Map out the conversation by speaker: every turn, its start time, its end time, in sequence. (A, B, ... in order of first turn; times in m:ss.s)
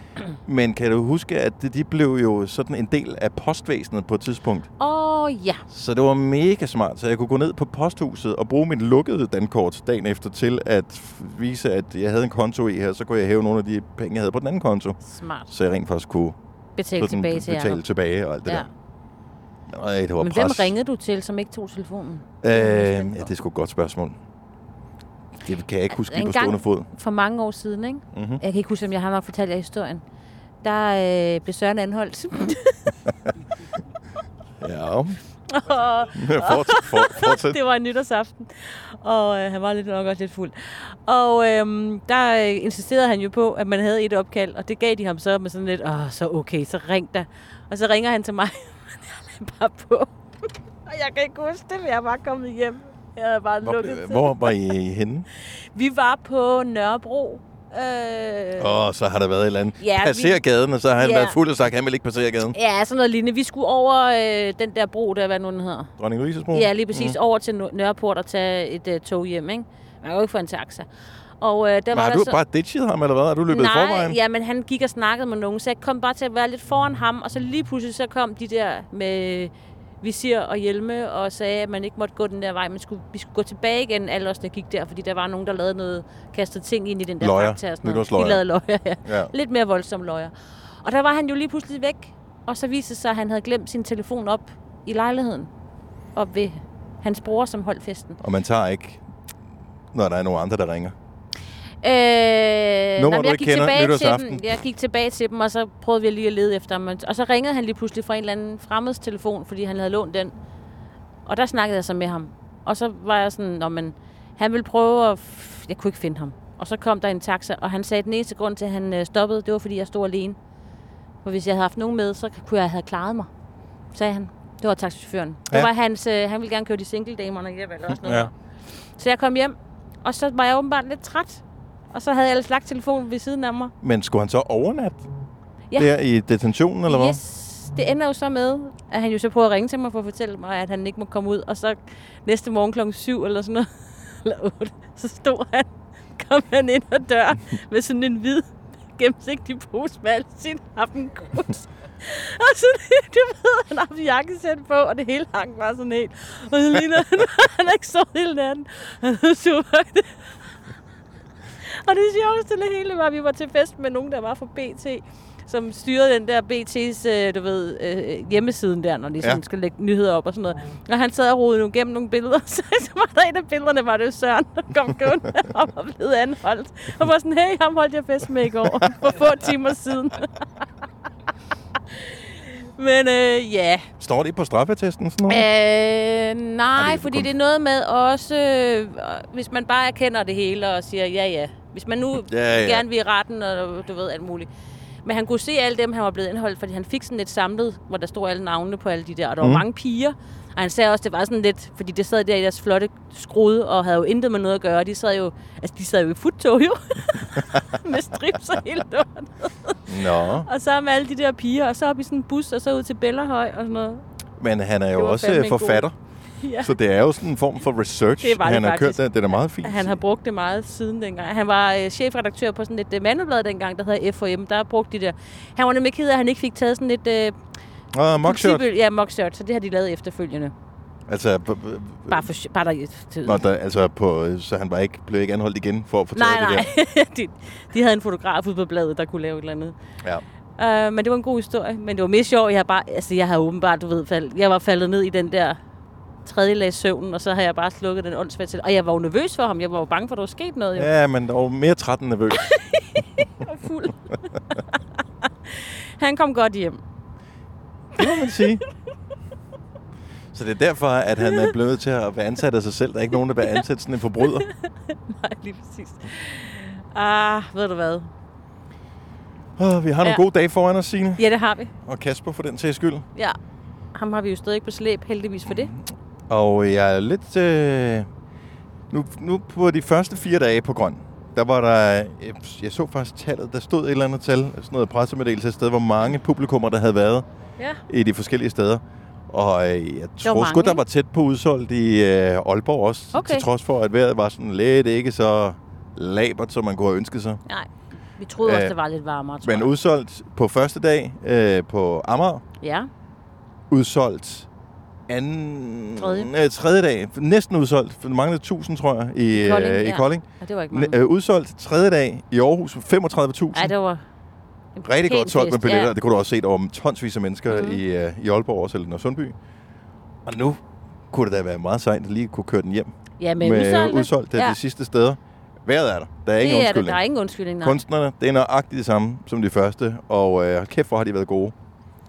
0:00.4-0:04.7 A
0:04.8-0:05.6 B
0:05.7-0:16.4 A
0:15.0-0:15.5 B
0:16.8-0:17.8 B
0:17.0-0:18.7 A
0:19.7-0:20.7 A
0:20.2-0:23.3 B
0:22.4-0:24.2 A
0:25.4-0:26.9 A
0:25.9-0:30.0 B
0:28.1-0:28.4 A
0:30.6-0:32.9 B
0:34.6-0:35.2 A
0:35.5-0:50.1 B
0:36.1-0:37.6 A
0:50.8-0:54.6 B
0:53.6-0:55.3 A
0:55.7-0:58.8 B
0:58.6-1:02.6 A
0:59.8-1:00.4 B
1:01.0-1:01.4 B
1:02.5-1:05.9 B
1:06.0-1:07.2 A
1:06.5-1:10.9 B
1:11.4-1:12.4 B
1:11.9-1:14.2 A
1:13.5-1:30.3 B
1:27.2-1:28.4 A
1:29.0-1:29.3 A
1:30.8-1:35.5 B
1:36.1-1:38.2 B
1:38.2-1:39.0 A
1:39.9-1:40.9 A
1:41.8-1:50.3 B
1:43.0-1:44.5 A
1:51.2-2:00.4 B
2:01.2-2:03.3 B
2:03.9-2:08.3 B
2:07.9-2:08.3 A
2:09.0-2:13.7 B
2:13.8-2:15.1 A
2:15.8-2:17.2 A
2:16.9-2:23.7 B
2:24.2-2:40.4 B
2:41.7-3:00.4 B
2:58.6-2:58.9 A
3:01.9-3:03.8 B
3:04.0-3:05.4 A
3:05.3-3:14.5 B
3:06.7-3:07.3 A
3:12.2-3:12.9 A
3:15.0-3:34.0 B
3:19.4-3:19.6 A
3:29.9-3:30.5 A
3:34.4-3:35.9 A
3:34.9-3:35.8 B
3:36.4-3:36.7 B
3:36.6-3:40.0 A
3:38.2-3:39.0 B
3:39.6-3:47.4 B
3:47.9-3:48.6 A
3:48.2-3:50.5 B
3:51.1-3:52.3 A
3:52.1-3:53.4 B
3:53.2-3:56.7 A
3:56.1-3:59.7 B
4:00.6-4:05.6 B
4:06.2-4:10.9 B
4:10.8-4:12.5 A
4:12.4-4:14.8 B
4:15.4-4:16.8 B
4:18.0-4:18.6 A
4:20.3-4:24.4 A
4:24.4-4:28.1 B
4:29.6-4:31.2 A
4:31.2-4:31.7 B
4:31.8-4:33.0 A
4:33.9-4:35.7 B
4:35.5-4:38.1 A
4:38.9-4:47.2 A
4:47.9-4:57.4 A
4:50.2-4:50.8 B
4:53.1-4:53.5 B
4:57.5-4:59.7 B
4:58.4-4:58.8 A
4:59.4-5:02.4 A
5:02.6-5:02.9 B
5:03.7-5:04.5 A
5:05.1-5:13.7 A
5:06.0-5:06.3 B
5:09.3-5:11.0 B
5:13.5-5:14.0 B
5:14.8-5:15.9 B
5:14.8-5:19.4 A
5:17.5-5:17.8 B
5:20.2-5:27.0 A
5:23.2-5:24.6 B
5:26.4-5:27.8 B
5:27.6-5:31.5 A